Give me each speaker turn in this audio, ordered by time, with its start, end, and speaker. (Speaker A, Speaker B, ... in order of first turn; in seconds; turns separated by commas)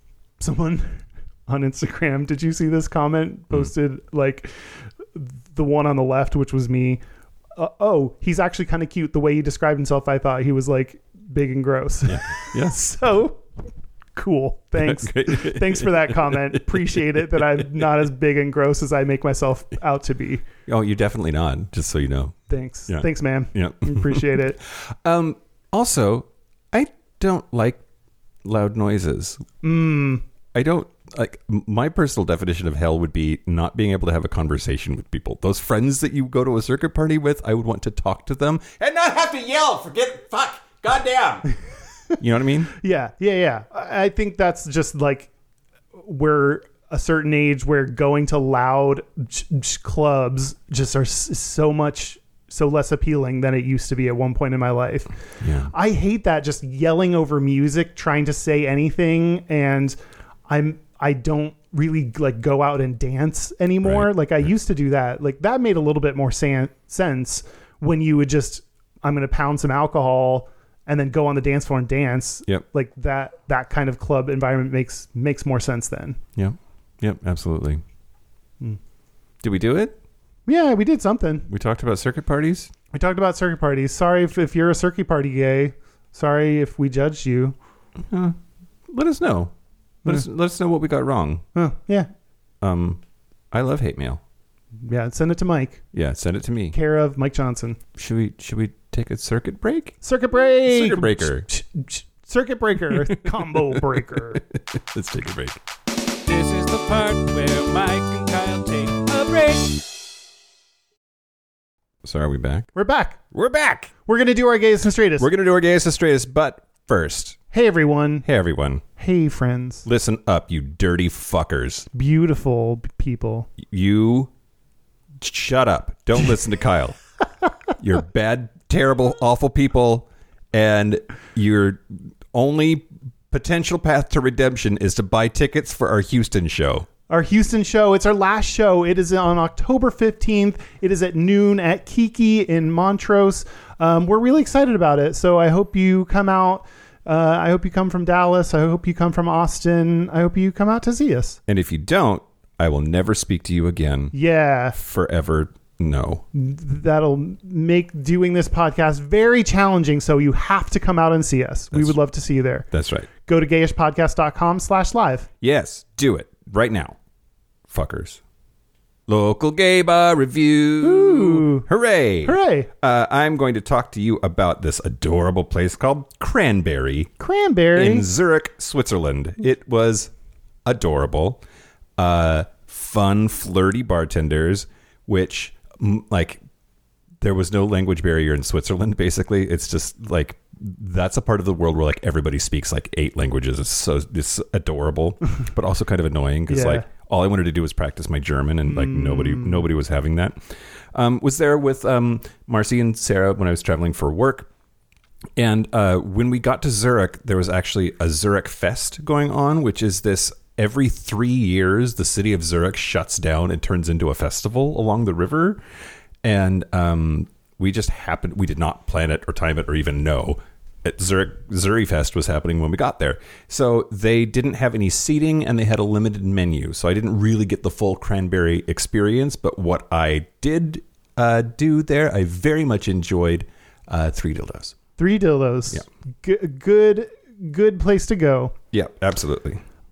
Speaker A: 0.4-7.0, Speaker A: 7.5-13.4, Speaker B: 12.0-12.8, Speaker A: 14.2-20.4, Speaker B: 14.8-17.6, Speaker B: 20.6-27.8, Speaker A: 22.5-24.6, Speaker B: 28.4-29.4, Speaker A: 29.6-30.2, Speaker B: 30.5-41.5, Speaker B: 42.2-42.7, Speaker A: 42.7-45.3, Speaker A: 45.9-55.1, Speaker B: 55.4-55.7, Speaker A: 55.7-60.0, Speaker A: 60.5-76.2, Speaker B: 63.8-64.1, Speaker B: 76.3-77.8, Speaker B: 79.4-80.0, Speaker A: 80.5-81.5, Speaker B: 81.5-82.7, Speaker A: 82.9-87.5, Speaker B: 88.0-88.4, Speaker B: 88.9-89.5, Speaker B: 90.0-91.4, Speaker A: 91.5-92.1, Speaker B: 92.6-93.0, Speaker B: 93.5-94.2, Speaker A: 94.8-95.8, Speaker B: 95.9-96.7, Speaker A: 96.7-97.8, Speaker B: 97.9-100.0, Speaker A: 100.0-104.4, Speaker B: 100.6-101.5, Speaker B: 102.9-105.6, Speaker C: 106.2-109.8, Speaker B: 112.0-112.7, Speaker A: 112.7-113.2, Speaker B: 113.3-113.9, Speaker A: 114.0-115.3, Speaker B: 115.2-117.4, Speaker A: 117.5-118.2, Speaker B: 118.2-118.8, Speaker A: 119.0-119.8, Speaker B: 119.8-121.9, Speaker A: 121.9-123.5, Speaker B: 123.6-124.3, Speaker B: 125.2-127.0, Speaker B: 127.8-136.9, Speaker A: 137.1-151.4, Speaker B: 151.5-154.1, Speaker A: 154.1-154.8, Speaker B: 154.7-156.2, Speaker A: 156.3-162.7, Speaker B: 162.7-163.1, Speaker A: 163.2-165.3, Speaker B: 165.4-166.9, Speaker B: 167.7-168.2, Speaker B: 169.1-177.1, Speaker A: 170.8-171.7, Speaker A: 172.2-172.7, Speaker A: 177.2-178.1, Speaker B: 177.7-180.1, Speaker B: 180.6-181.4, Speaker B: 182.0-186.4, Speaker B: 187.2-200.4, Speaker A: 196.5-196.8, Speaker A: 198.7-199.6, Speaker B: 200.9-204.5, Speaker B: 205.4-215.6, Speaker B: 216.2-234.8, Speaker A: 235.0-238.5, Speaker B: 238.7-239.6